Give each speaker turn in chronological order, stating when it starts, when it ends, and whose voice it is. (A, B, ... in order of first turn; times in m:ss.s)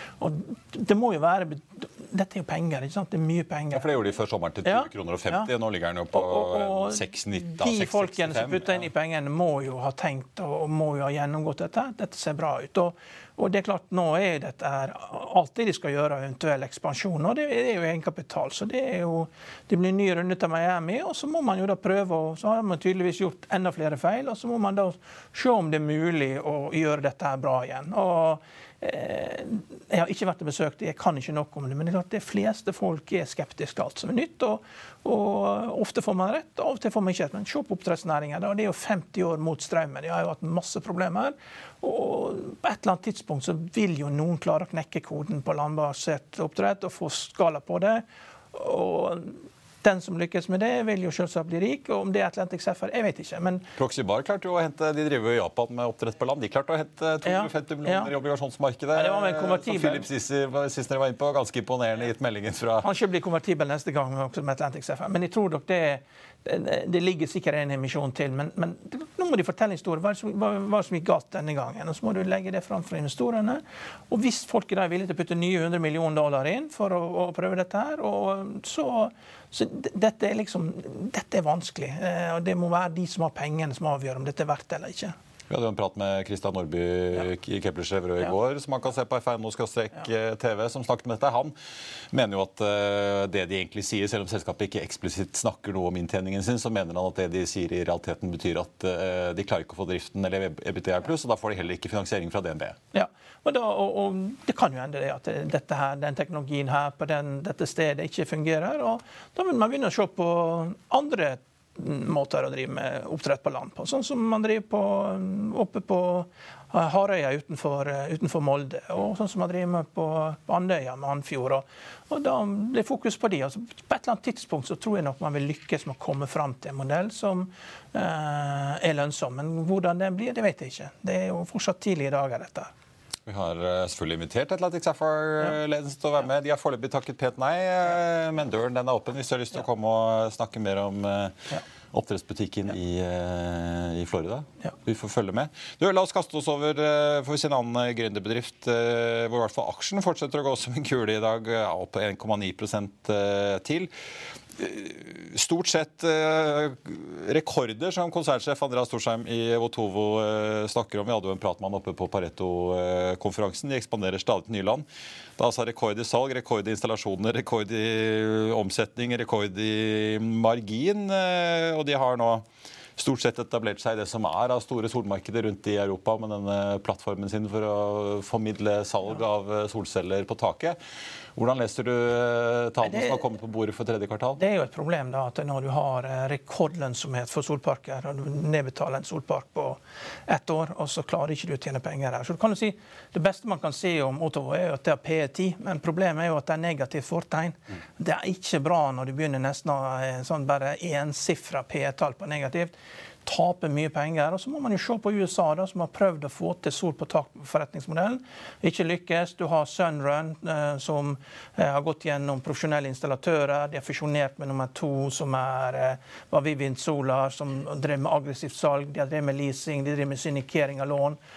0:00.2-0:03.9 A
0:03.7-0:08.8 B
0:04.6-0:05.5 A
0:06.1-0:53.7 A
0:53.8-1:02.9 B
0:57.2-0:58.1 A
0:58.9-1:00.1 A
1:02.8-1:25.1 A
1:25.5-1:31.5 B
1:32.1-1:42.8 B
1:42.9-2:12.7 A
2:13.2-2:33.9 B
2:34.6-2:44.8 B
2:45.4-2:52.4 B
2:53.0-3:00.8 B
3:01.4-3:04.4 B
3:02.8-3:03.2 A
3:04.4-3:22.7 A
3:23.2-3:41.2 A